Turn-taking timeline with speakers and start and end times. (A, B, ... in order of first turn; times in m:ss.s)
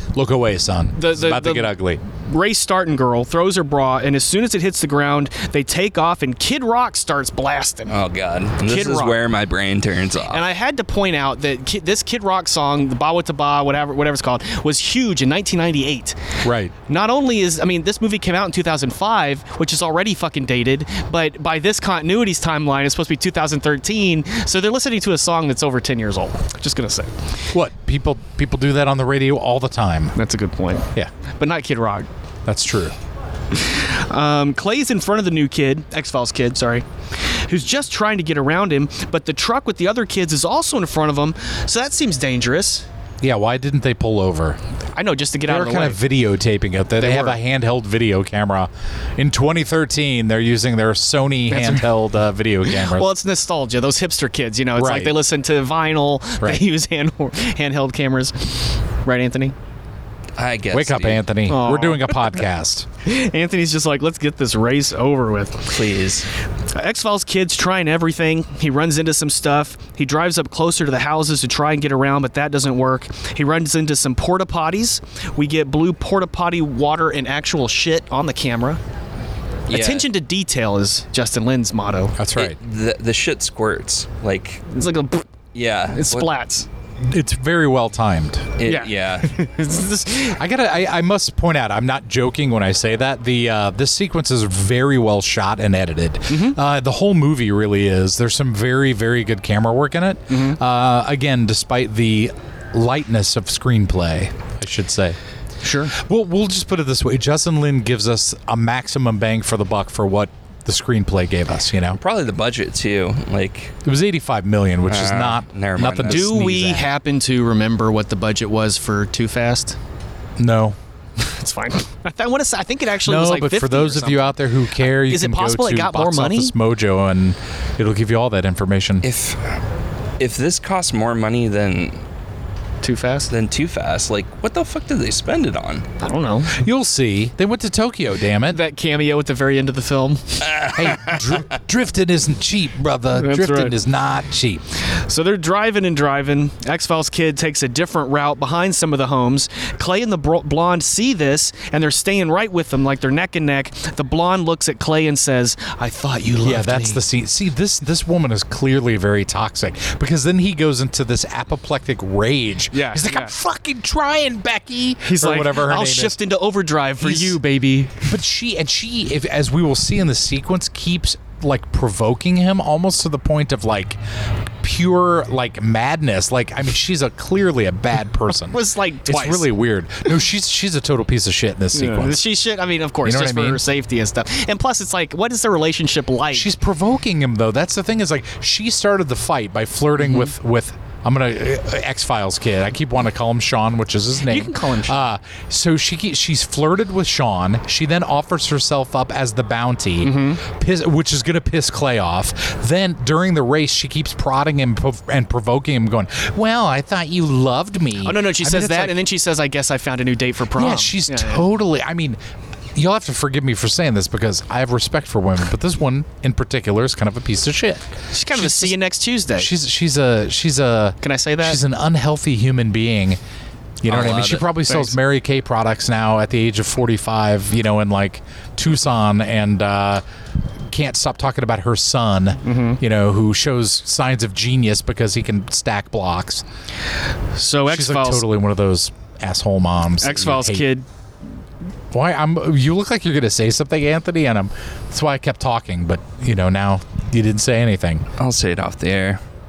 0:00.1-0:02.0 A
0:01.0-0:08.0 B
0:07.9-0:10.4 C
0:08.6-0:09.2 B
0:10.3-0:16.2 B
0:16.4-0:16.7 A
0:16.9-0:27.2 B
0:27.5-0:30.2 A
0:30.2-0:32.1 B
0:32.5-0:33.0 A
0:33.5-0:42.9 B
0:43.2-0:44.6 A
0:45.0-0:46.0 B
0:45.5-0:53.1 A
0:47.0-0:47.4 B
0:51.5-0:51.9 B
0:52.7-0:59.6 B
0:54.8-0:55.2 A
1:00.4-1:01.2 C
1:00.7-1:02.9 A
1:01.5-1:02.2 B
1:03.0-1:05.8 B
1:05.7-1:06.3 C
1:06.7-1:18.8 B
1:19.7-1:20.1 C
1:19.7-1:22.2 B
1:22.2-1:22.6 A
1:22.4-1:24.7 C
1:24.7-1:25.3 B
1:25.5-1:26.3 C
1:25.9-1:26.7 B
1:27.1-1:28.6 A
1:28.6-1:29.3 C
1:28.6-1:30.4 B
1:30.3-1:45.2 A
1:36.3-1:36.6 B
1:40.3-1:40.6 B
1:45.6-1:45.9 B
1:45.9-1:52.0 A
1:52.0-1:53.8 C
1:53.8-1:56.9 A
1:54.9-1:56.4 C
1:56.1-1:59.8 B
2:00.4-2:00.8 A
2:01.2-2:06.5 B
2:03.0-2:09.0 A
2:09.0-2:09.6 C
2:10.2-2:12.0 C
2:12.8-2:13.3 B
2:13.3-2:15.9 C
2:16.0-2:16.6 B
2:16.5-2:18.6 A
2:18.5-2:20.4 B
2:20.4-2:21.3 C
2:20.7-2:24.6 A
2:23.2-2:23.8 B
2:24.9-2:37.0 B
2:36.4-2:46.2 A
2:42.7-2:43.4 B
2:45.0-2:48.0 B
2:47.0-2:54.0 A
2:54.6-3:02.2 A
2:58.5-2:59.5 B
3:01.7-3:06.5 B
3:03.0-3:03.6 A
3:06.3-3:29.0 A
3:14.2-3:15.0 B
3:20.0-3:20.4 B
3:28.0-3:31.4 B
3:30.6-3:32.2 A
3:32.8-3:38.8 A
3:38.1-3:39.5 B
3:39.4-3:43.2 A
3:41.0-3:41.6 B
3:43.8-3:50.0 A
3:43.9-3:44.5 C
3:44.7-3:44.9 B
3:50.7-3:56.4 A
3:52.4-3:52.8 B
3:57.3-3:58.3 B
3:57.7-4:00.7 A
4:00.0-4:00.9 B
4:01.9-4:08.1 A
4:08.2-4:09.2 C